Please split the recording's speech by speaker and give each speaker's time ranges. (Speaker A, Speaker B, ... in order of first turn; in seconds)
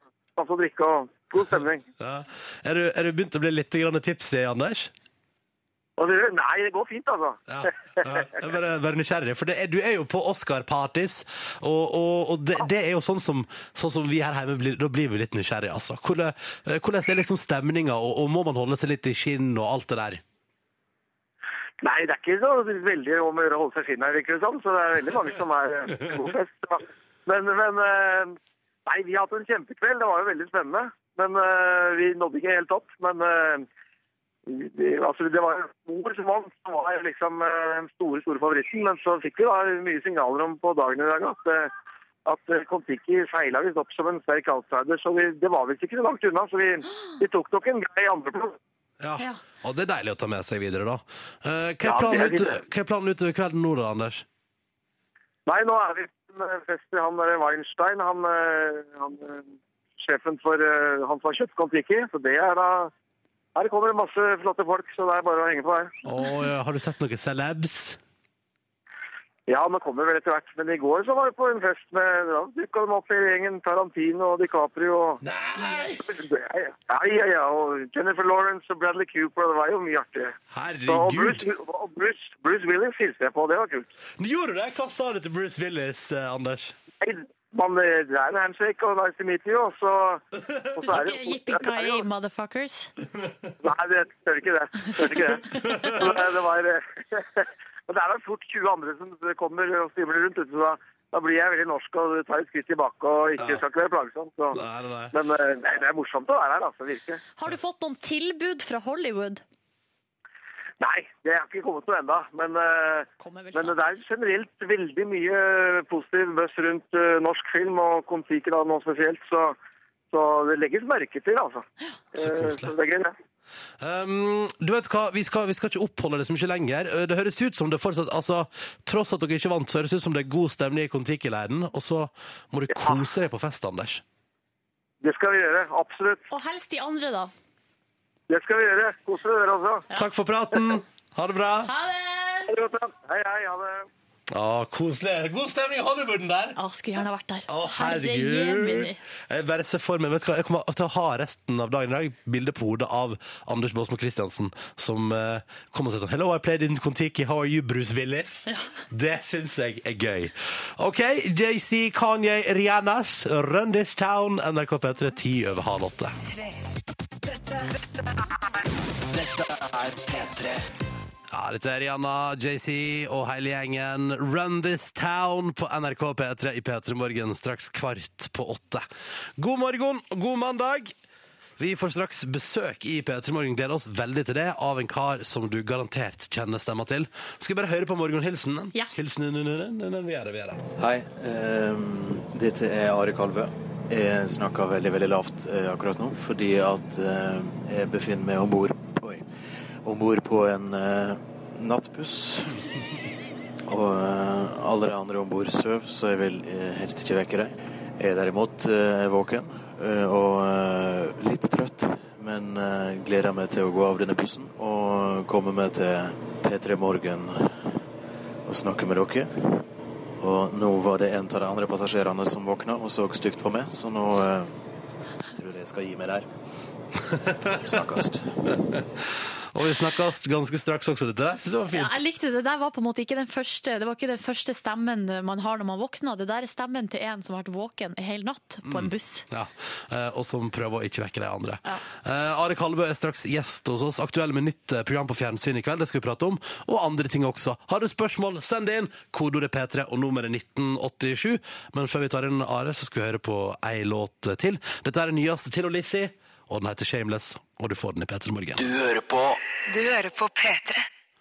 Speaker A: 0.4-1.8, 6.0-7.7, 21.8-33.6, 34.5-41.7, 42.2-48.6, 51.8-52.6, 55.5-59.4, 60.0-62.9, 63.5-65.9, 69.5-75.2, 75.8-80.3, 80.8-83.9, 87.0-90.2, 90.8-92.0, 93.6-95.4, 96.0-104.6, 105.1-107.2, 110.8-119.5, 120.1-123.1, 135.0-136.2, 138.3-139.8, 142.5-143.8
Speaker B: 2.0-4.9, 7.5-20.2, 49.0-54.2, 66.0-68.0, 75.2-76.1, 80.5-81.5, 84.2-86.7, 90.3-91.1, 95.5-96.2, 104.5-105.2, 122.2-122.7, 123.8-134.0, 139.9-141.7, 144.3-146.6, 147.5-166.1, 171.3-178.8, 179.4-180.9, 181.6-190.6, 227.2-227.6, 229.0-231.9, 238.6-258.7
Speaker C: 90.8-92.9, 95.5-95.9, 107.4-109.4, 113.2-113.8, 136.3-137.3, 141.7-142.5, 146.6-149.0, 231.7-239.2
Speaker D: 167.3-167.7, 169.1-170.6, 258.6-260.9
Speaker E: 190.8-199.2, 199.8-202.6, 203.7-217.6, 218.4-219.6, 220.2-224.5, 225.3-226.3, 227.4-228.3